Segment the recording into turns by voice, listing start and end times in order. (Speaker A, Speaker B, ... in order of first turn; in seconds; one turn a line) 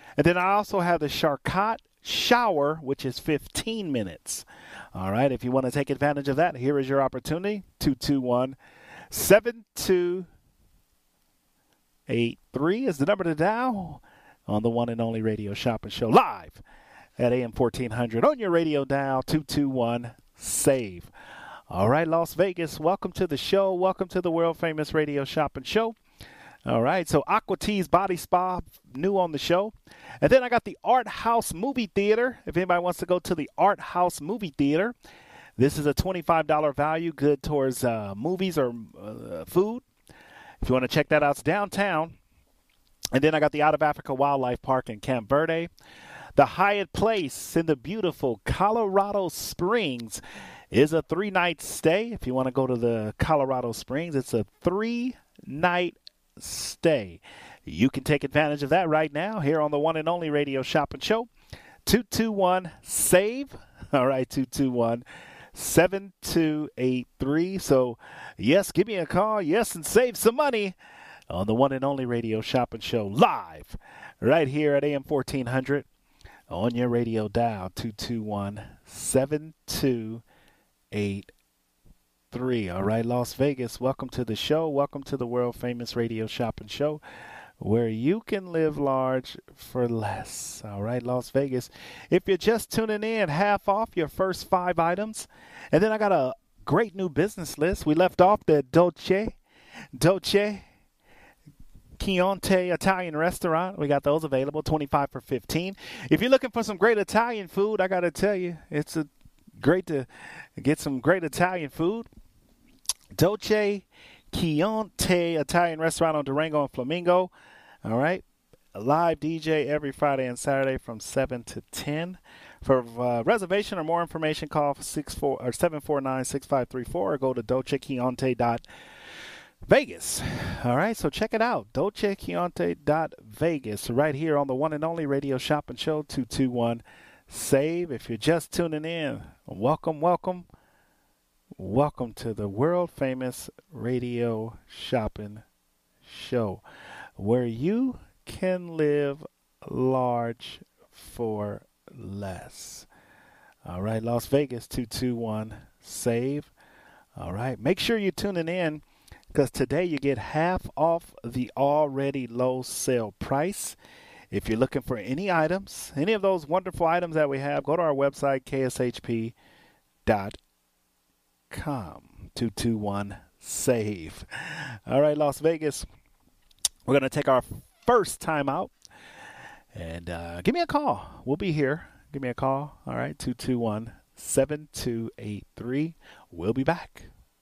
Speaker A: 0.2-8.6
Speaker A: 9.1-10.3
Speaker A: 12.1-16.6
Speaker A: 17.2-21.1
Speaker A: 21.7-25.9
Speaker A: 26.6-34.9
Speaker A: 35.6-39.8
Speaker A: 40.6-42.1
Speaker A: 43.1-45.7
Speaker A: 46.4-61.3
Speaker A: 61.9-70.8
Speaker A: 71.3-75.9
Speaker A: 76.5-80.2
Speaker A: 80.9-81.3
Speaker A: 82.3-87.0
Speaker A: 87.6-99.4
Speaker A: 99.9-100.7
Speaker A: 102.0-112.1
Speaker A: 113.1-117.3
Speaker A: 117.8-118.2
Speaker A: 118.7-128.7
Speaker A: 129.6-140.5
Speaker A: 141.5-145.4
Speaker A: 146.0-146.6
Speaker A: 147.2-152.9
Speaker A: 153.6-156.5
Speaker A: 157.2-163.8
Speaker A: 164.3-169.3
Speaker A: 170.1-170.4
Speaker A: 171.5-175.9
Speaker A: 176.8-178.7
Speaker A: 179.7-187.1